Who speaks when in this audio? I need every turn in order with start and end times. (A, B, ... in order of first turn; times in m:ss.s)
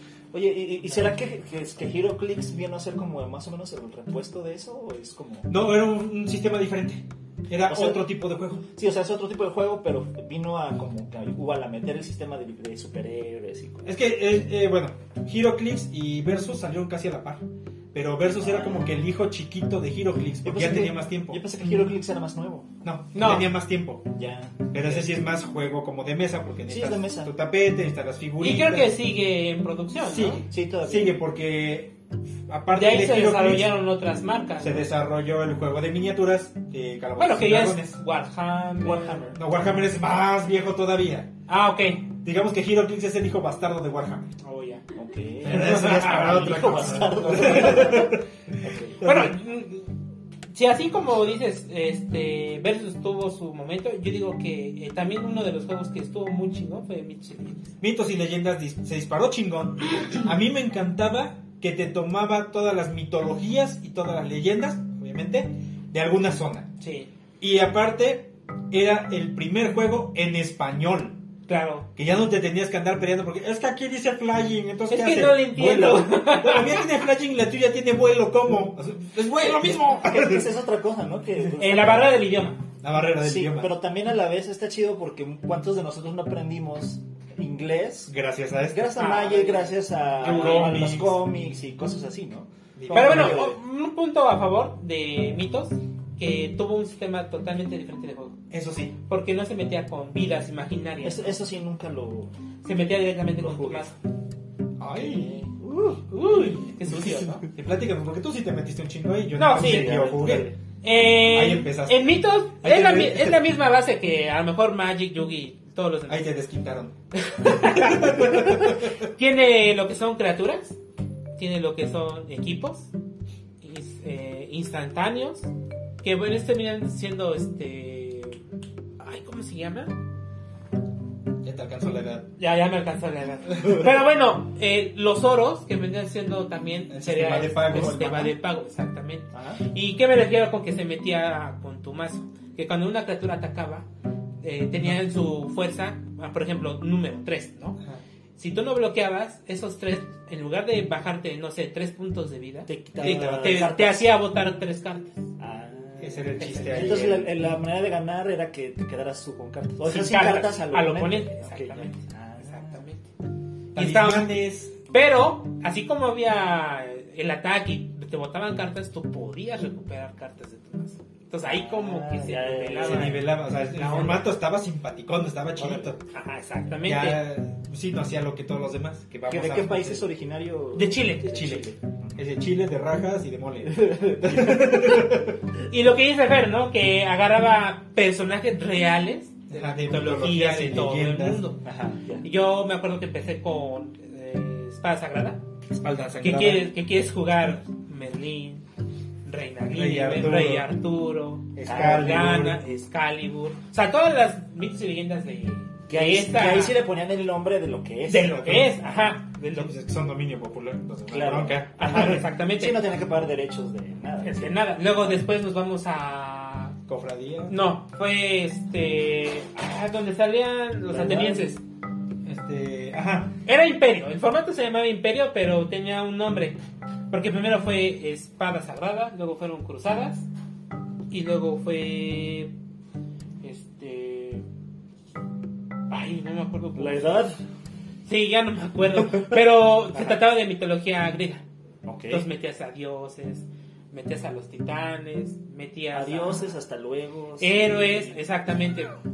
0:00.3-0:05.5 A
0:05.5-0:08.6 B
0:07.6-0:08.0 A
0:08.7-0:13.9 A
0:13.8-0:21.4 B
0:18.4-0:18.9 A
0:20.4-0:22.7 A
0:22.8-0:24.0 B
0:23.1-0:23.5 C
0:24.1-0:25.1 A
0:24.7-0:29.0 B
0:26.7-0:27.3 A
0:28.4-0:30.4 C
0:30.0-0:31.9 B
0:30.5-0:31.2 A
0:32.5-0:33.7 B
0:32.7-0:34.9 C
0:34.6-0:38.0 B
0:37.2-0:39.3 C
0:38.8-0:39.4 A
0:39.3-0:41.3 B
0:41.5-0:42.1 C
0:42.2-0:44.3 B
0:44.4-0:44.8 C
0:44.9-0:49.2 A
0:45.4-0:48.2 B
0:45.5-0:48.0 C
0:49.0-0:49.9 C
0:49.0-0:49.3 B
0:50.5-0:57.7 C
0:57.8-1:06.7 B
1:06.8-1:07.1 C
1:07.4-1:11.2 B
1:11.5-1:11.9 C
1:12.0-1:20.5 B
1:14.9-1:16.8 C
1:19.4-1:22.2 A
1:21.6-1:22.6 C
1:22.8-1:23.7 B
1:23.2-1:28.1 A
1:28.1-1:28.8 B
1:28.7-1:33.6 A
1:29.0-1:30.9 C
1:30.2-1:31.2 B
1:32.8-1:33.4 B
1:32.9-1:38.4 C
1:38.5-1:39.0 B
1:39.1-1:41.3 C
1:41.0-1:42.3 A
1:42.6-1:43.9 C
1:43.4-1:43.9 A
1:44.8-1:45.3 B
1:44.9-1:46.0 A
1:46.1-1:47.4 C
1:47.4-1:50.5 B
1:49.4-1:56.3 C
1:49.5-1:50.6 A
1:51.3-1:53.4 B
1:56.1-1:59.1 B
1:57.2-2:00.8 C
2:01.4-2:02.9 C
2:03.6-2:05.5 C
2:06.0-2:08.4 C
2:09.0-2:10.0 C
2:11.4-2:12.3 B
2:12.4-2:23.9 C
2:16.9-2:18.3 B
2:19.3-2:19.6 A
2:24.4-2:27.8 C
2:28.4-2:35.2 C
2:32.6-2:34.1 A
2:33.0-2:33.8 B
2:35.4-2:42.8 A
2:36.0-2:37.4 B
2:36.4-2:37.0 C
2:39.9-2:43.1 C
2:43.7-2:44.7 B
2:43.7-2:54.3 C
2:51.4-2:53.3 A
2:52.8-2:56.0 B
2:55.6-2:55.8 A
2:56.1-2:57.2 C
2:56.8-3:00.0 B
2:59.3-3:02.2 A
3:00.7-3:01.4 C
3:01.2-3:05.4 B
3:03.6-3:05.2 A
3:05.7-3:11.6 C
3:09.5-3:11.4 B
3:11.6-3:12.3 A
3:12.2-3:15.4 C
3:15.7-3:16.7 B
3:16.2-3:18.6 C
3:19.2-3:26.8 C
3:19.7-3:20.7 B
3:21.5-3:22.6 B
3:21.6-3:22.3 A
3:25.9-3:28.7 A
3:28.1-3:29.7 C
3:28.4-3:28.7 B
3:29.4-3:32.2 B
3:31.1-3:34.8 A
3:31.8-3:32.8 C
3:34.2-3:36.7 C
3:36.9-3:37.6 B
3:37.5-3:41.6 C
3:40.9-3:41.5 A
3:42.2-3:43.3 B
3:43.4-3:46.6 C
3:47.1-3:50.3 C
3:51.1-3:52.5 C
3:53.4-3:54.4 C
3:55.9-3:57.3 C
3:56.7-3:57.4 A
3:58.0-4:01.4 C
4:01.8-4:02.3 A
4:02.1-4:06.5 C
4:05.9-4:08.2 A
4:07.4-4:08.9 C